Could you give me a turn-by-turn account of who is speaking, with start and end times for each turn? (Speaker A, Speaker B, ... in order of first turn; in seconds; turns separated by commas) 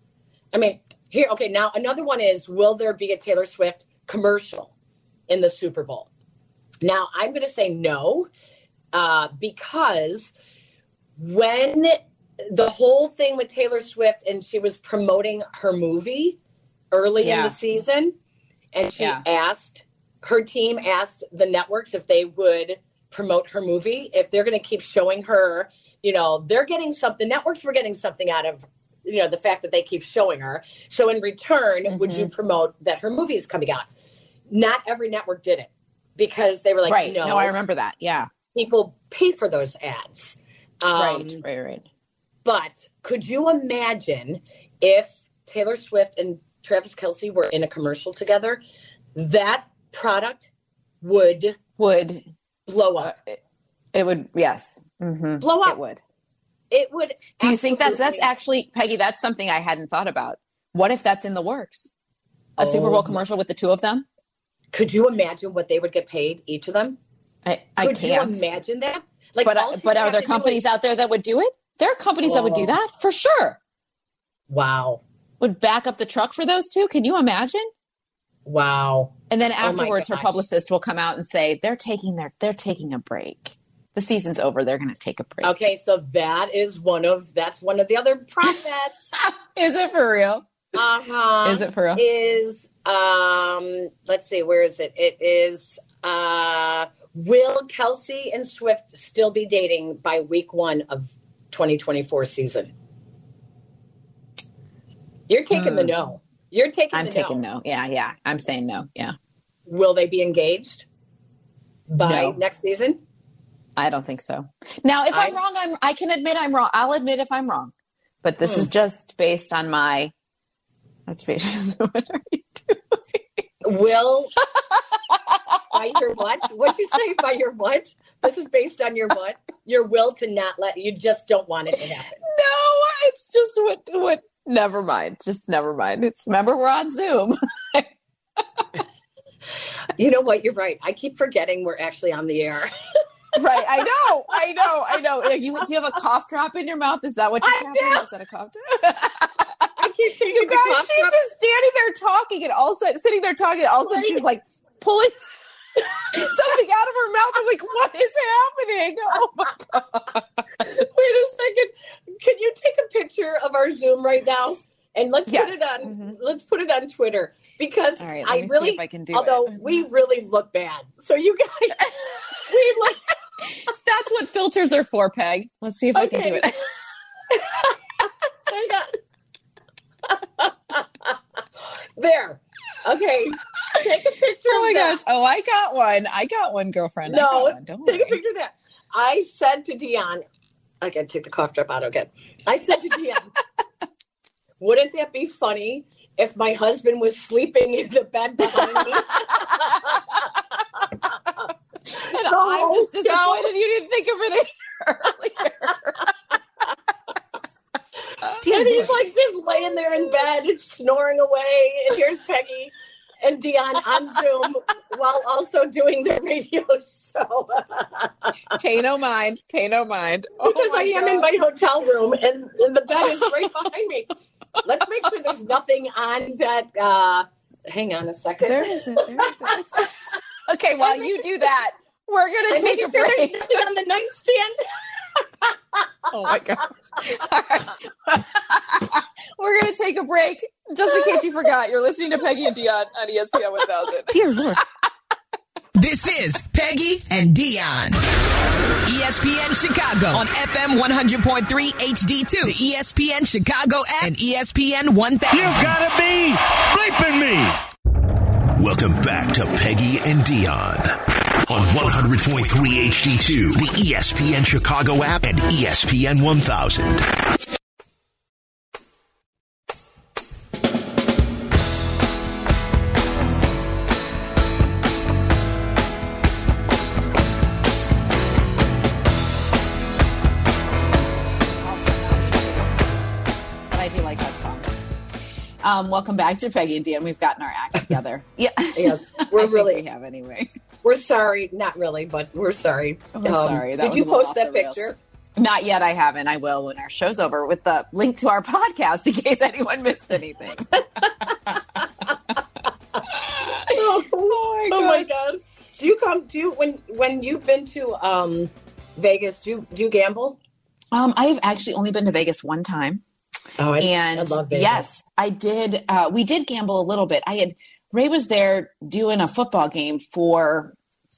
Speaker A: 0.5-4.7, Speaker A: 5.3-6.1, Speaker A: 6.8-8.3, Speaker A: 8.9-10.3, Speaker A: 11.2-16.4, Speaker A: 16.9-18.1, Speaker B: 17.2-17.6, Speaker A: 18.7-33.9, Speaker B: 31.9-32.3, Speaker A: 34.5-37.5, Speaker B: 36.9-38.3, Speaker A: 38.5-41.4, Speaker B: 40.9-41.9, Speaker A: 42.4-48.6, Speaker A: 49.1-50.5, Speaker A: 51.0-51.6, Speaker B: 51.8-52.2, Speaker A: 52.7-53.1, Speaker B: 53.0-53.4, Speaker B: 53.9-56.0, Speaker A: 55.4-55.8, Speaker A: 56.7-58.3, Speaker B: 57.4-61.9, Speaker A: 62.6-63.2, Speaker B: 62.6-64.0, Speaker A: 64.7-67.0, Speaker B: 67.4-68.4, Speaker A: 67.8-70.6, Speaker B: 69.4-73.6, Speaker A: 72.2-72.7, Speaker A: 74.5-75.0, Speaker B: 75.4-77.7, Speaker A: 78.4-80.4, Speaker B: 79.3-85.5, Speaker A: 85.4-89.1, Speaker B: 89.2-90.5, Speaker A: 90.7-102.7, Speaker B: 91.4-92.0, Speaker A: 105.3-107.4, Speaker B: 105.5-105.9, Speaker B: 106.9-109.2, Speaker A: 109.7-110.8, Speaker A: 111.9-113.0, Speaker B: 112.0-112.4, Speaker B: 113.8-120.1, Speaker A: 115.1-115.4, Speaker A: 118.4-118.7, Speaker B: 121.1-123.4, Speaker A: 123.6-124.4, Speaker B: 125.1-125.5, Speaker A: 125.7-132.2, Speaker B: 132.2-138.4, Speaker A: 140.0-142.7, Speaker B: 143.3-149.7, Speaker A: 147.4-148.1, Speaker A: 149.8-151.2, Speaker B: 150.3-160.6, Speaker A: 153.8-154.2, Speaker A: 160.6-173.1, Speaker B: 165.3-166.1, Speaker B: 168.0-169.7, Speaker B: 173.5-176.7, Speaker A: 175.9-176.7, Speaker A: 177.3-177.8, Speaker A: 178.4-179.0, Speaker A: 180.1-181.2, Speaker A: 182.0-185.0, Speaker B: 184.5-188.2, Speaker A: 187.1-190.2, Speaker A: 190.8-193.3, Speaker A: 194.6-200.3, Speaker B: 198.4-199.7, Speaker B: 201.9-206.1, Speaker A: 202.0-203.5, Speaker A: 208.4-218.5, Speaker B: 208.4-208.9, Speaker B: 218.5-221.3, Speaker A: 220.4-229.9, Speaker B: 228.4-233.6, Speaker A: 230.8-231.2, Speaker A: 232.5-235.5, Speaker B: 236.1-244.6, Speaker A: 240.9-241.2, Speaker C: 245.8-248.0, Speaker C: 248.8-255.8, Speaker D: 255.3-257.6, Speaker E: 258.6-267.1, Speaker B: 281.6-282.9, Speaker B: 283.7-284.7, Speaker B: 285.6-290.5, Speaker A: 288.7-289.8, Speaker A: 290.8-295.0, Speaker B: 293.1-294.8, Speaker B: 295.4-301.5, Speaker B: 303.1-305.1, Speaker A: 303.5-310.4, Speaker B: 310.9-313.0, Speaker A: 313.6-314.8, Speaker B: 313.8-320.8